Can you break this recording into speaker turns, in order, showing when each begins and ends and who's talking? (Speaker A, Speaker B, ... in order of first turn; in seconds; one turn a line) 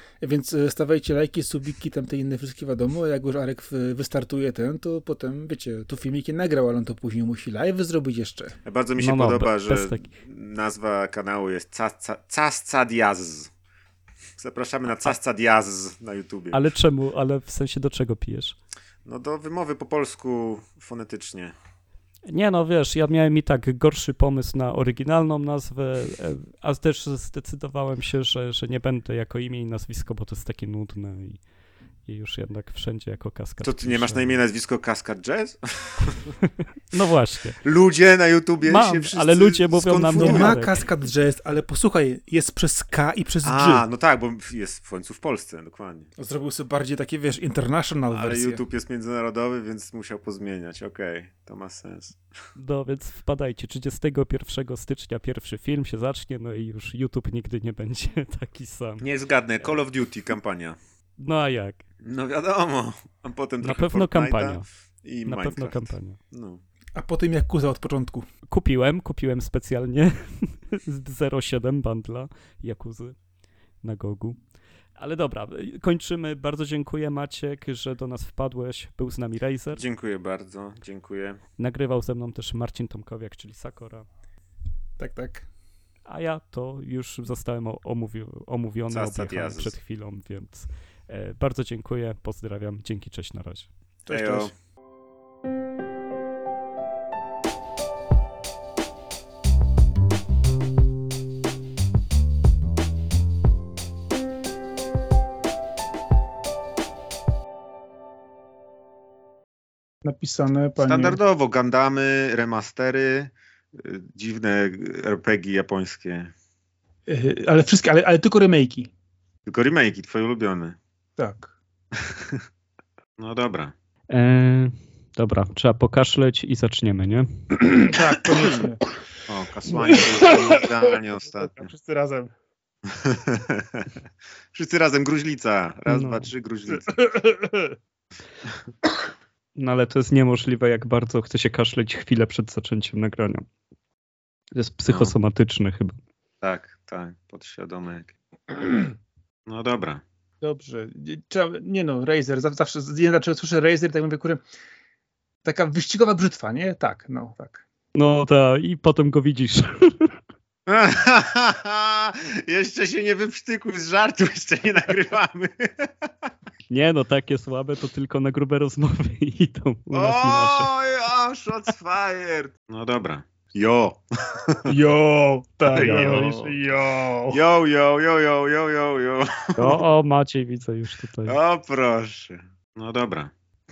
Speaker A: 0.2-8.6
Speaker B: 8.6-13.5
Speaker C: 9.0-10.1
Speaker B: 14.4-16.6
Speaker C: 16.5-18.6
Speaker B: 19.0-21.5
Speaker C: 22.3-31.4
Speaker C: 32.0-34.4
Speaker B: 33.6-36.2
Speaker C: 36.4-37.6
Speaker B: 37.6-40.6
Speaker C: 38.6-40.8
Speaker A: 40.1-43.8
Speaker B: 43.4-46.1
Speaker A: 46.2-48.6
Speaker B: 48.1-52.2
Speaker C: 52.6-59.0
Speaker B: 59.0-60.8
Speaker C: 61.2-61.8
Speaker B: 62.0-66.6
Speaker C: 63.6-64.6
Speaker C: 65.2-66.2
Speaker A: 66.9-68.3
Speaker C: 68.5-73.2
Speaker C: 73.8-74.4
Speaker C: 75.0-79.8
Speaker B: 79.7-81.4
Speaker C: 81.6-84.0
Speaker A: 85.0-85.5
Speaker C: 86.1-93.7
Speaker B: 88.9-89.8
Speaker A: 94.0-94.5
Speaker B: 94.1-94.5
Speaker A: 110.0-111.2
Speaker B: 110.8-116.3
Speaker A: 117.1-118.9
Speaker B: 119.5-120.8
Speaker A: 121.2-121.5
Speaker B: 121.9-122.4
Speaker B: 123.2-123.7
Speaker C: 124.1-127.5
Speaker A: 127.7-128.9
Speaker B: 129.3-131.7
Speaker A: 129.7-132.3
Speaker B: 132.8-134.0
Speaker B: 134.5-136.9
Speaker C: 135.9-136.3
Speaker A: 136.7-137.8
Speaker C: 139.6-143.4
Speaker C: 144.5-146.0
Speaker B: 144.9-145.1
Speaker B: 146.4-148.1
Speaker B: 149.4-150.0
Speaker A: 150.4-154.4
Speaker A: 155.4-157.6
Speaker C: 157.9-160.1
Speaker B: 160.7-166.3
Speaker C: 166.7-170.7
Speaker B: 169.9-174.7
Speaker A: 174.7-177.4
Speaker B: 175.7-176.6
Speaker C: 175.7-176.4
Speaker B: 177.3-179.8
Speaker C: 179.6-181.4
Speaker B: 181.2-183.3